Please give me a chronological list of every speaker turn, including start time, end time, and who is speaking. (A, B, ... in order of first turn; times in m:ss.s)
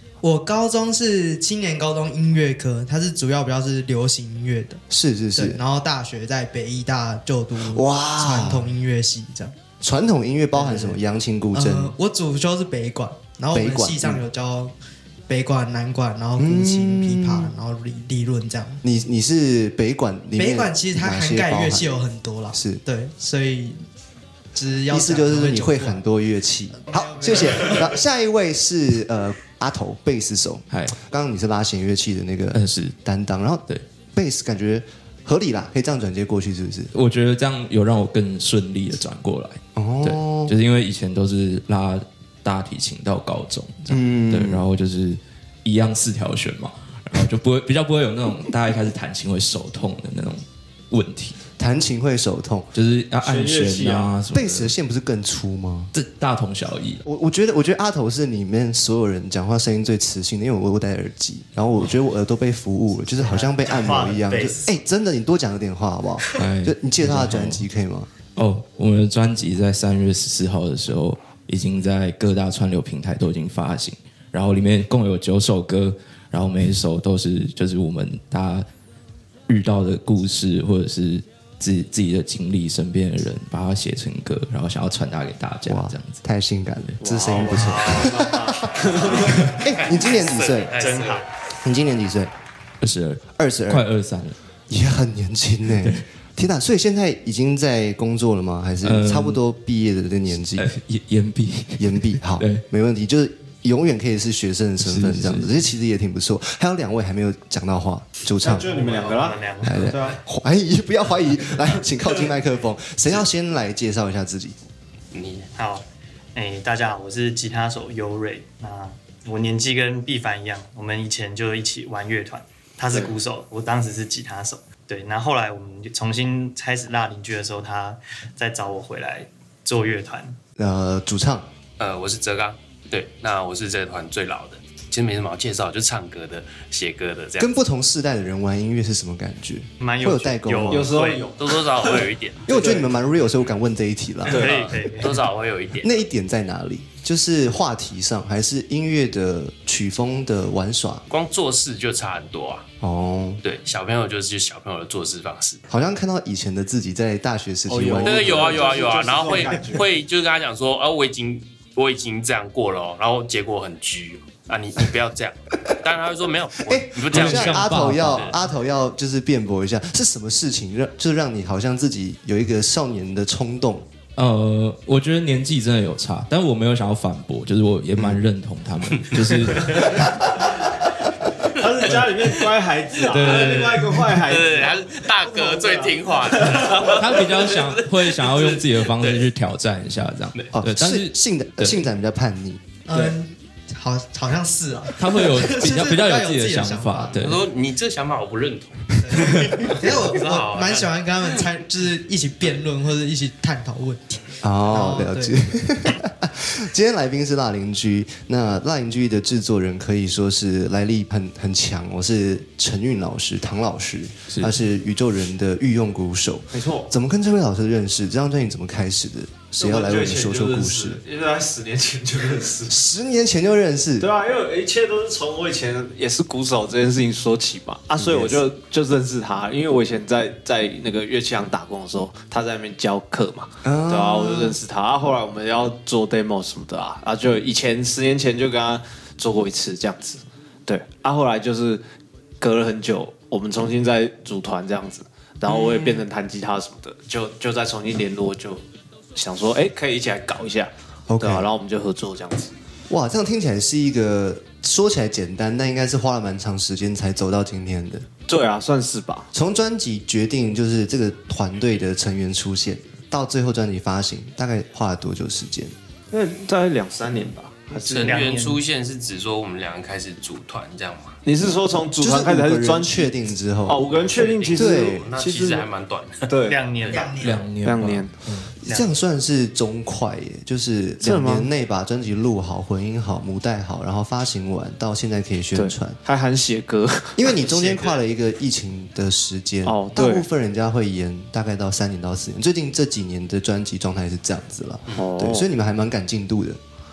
0:00.2-0:04.8 A
0:04.9-0:05.6 B
0:05.4-0:09.5 A
0:07.6-0:08.8 B
0:09.8-0:11.9 B
0:10.5-0:11.0 A
0:11.5-0:14.7 A
0:13.5-0:14.2 B
0:15.3-0:18.8 A
0:16.4-0:17.5 B
0:18.8-0:22.0 B
0:20.4-0:23.8 A
0:22.5-0:22.8 B
0:24.5-0:26.0 A
0:24.9-0:36.9 B
0:26.8-0:27.9 A
0:32.5-0:32.9 C
0:36.9-0:51.4 C
0:39.8-0:40.5 B
0:43.9-0:44.6 B
0:51.6-0:52.7 B
0:52.7-0:54.7 C
0:53.2-0:54.1 D
0:54.3-0:55.9 B
0:55.9-0:57.0 C
0:57.0-1:08.1 B
1:03.2-1:04.8 E
1:06.4-1:07.6 C
1:08.4-1:18.6 C
1:19.5-1:26.2 C
1:25.6-1:28.7 B
1:27.0-1:29.5 D
1:27.2-1:29.5 E
1:29.4-1:30.7 B
1:29.6-1:31.2 F
1:30.4-1:31.2 E
1:31.6-1:32.3 B
1:32.8-1:34.4 C
1:33.4-1:33.8 B
1:34.7-1:40.7 B
1:35.8-1:36.0 C
1:38.8-1:39.4 C
1:40.6-1:42.6 C
1:41.8-1:48.7 B
1:44.8-1:45.5 C
1:48.4-1:50.2 D
1:48.6-1:50.0 E
1:49.6-1:54.6 B
1:55.1-1:55.5 F
1:55.6-2:10.4 E
2:10.6-2:11.5 B
2:11.8-2:17.5 F
2:17.4-2:20.9 B
2:19.8-2:21.2 E
2:20.7-2:22.9 D
2:21.4-2:22.6 F
2:22.5-2:24.6 B
2:24.3-2:26.0 F
2:24.3-2:24.6 D
2:24.3-2:25.1 E
2:25.8-2:31.0 B
2:31.1-2:32.6 F
2:32.8-2:33.4 B
2:33.4-2:35.6 F
2:35.7-2:38.7 B
2:37.7-2:39.8 D
2:38.0-2:48.4 F
2:46.7-2:53.8 B
2:47.1-2:48.3 C
2:54.2-3:00.2 C
3:01.5-3:07.0 D
3:03.0-3:04.1 C
3:03.2-3:09.2 F
3:06.8-3:11.8 C
3:10.5-3:12.6 B
3:12.9-3:17.2 A
3:15.0-3:17.4 C
3:17.1-3:21.4 F
3:19.0-3:25.5 A
3:24.4-3:41.0 B
3:36.5-3:36.9 D
3:39.6-3:42.8 D
3:42.7-3:44.1 B
3:44.0-4:01.8 D
3:48.0-3:48.4 B
3:53.6-3:54.6 B
4:02.4-4:08.6 D
4:09.1-4:12.5 D
4:11.1-4:11.5 B
4:12.9-4:18.0 B
4:18.3-4:19.3 D
4:19.3-4:25.7 B
4:26.1-4:28.2 D
4:27.8-4:28.6 E
4:27.8-4:31.2 F
4:31.2-4:33.1 D
4:32.0-4:33.8 B
4:33.6-4:35.6 D
4:33.8-4:37.1 F
4:34.5-4:35.1 B
4:36.3-4:36.6 D
4:36.4-4:37.2 E
4:36.9-4:37.5 A
4:37.2-4:38.5 C
4:37.6-4:38.1 D
4:38.6-4:46.0 B
4:38.6-4:38.9 E
4:41.0-4:41.5 D
4:45.5-4:47.5 D
4:47.2-4:56.6 B
4:49.6-4:50.2 D
4:54.9-4:55.5 D